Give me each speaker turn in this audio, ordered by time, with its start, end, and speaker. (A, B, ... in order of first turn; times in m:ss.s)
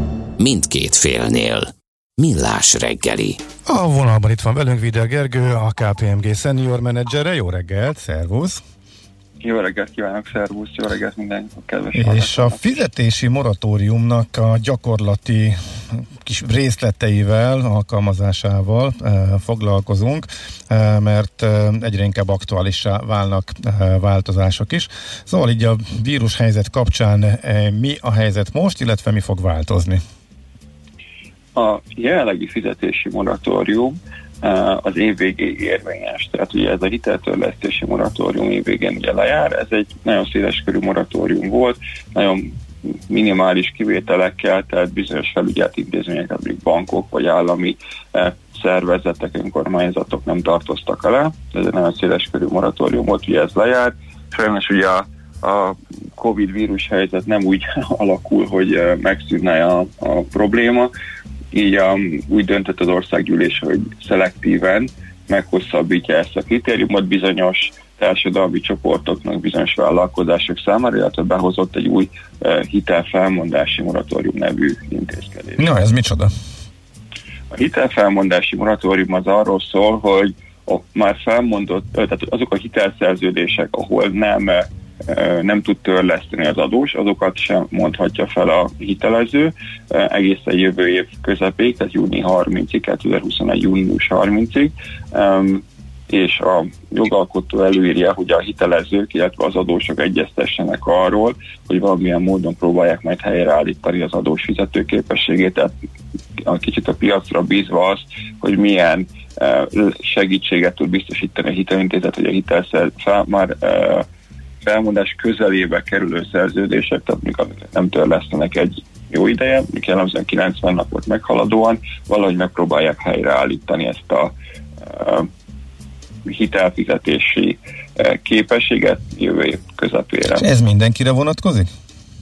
0:00.4-0:03.4 A
0:03.7-0:08.6 B
0:09.4-0:12.8 C
0:11.9-0:30.0 B
0:31.5-0:42.5 C
0:43.1-1:00.9 C
1:01.5-1:15.6 C
1:15.6-1:16.3 B
1:17.5-1:45.7 C
1:46.4-1:54.0 C
1:54.6-2:04.3 C
2:04.9-2:05.3 C
2:06.2-2:10.5 C
2:10.3-2:11.7 B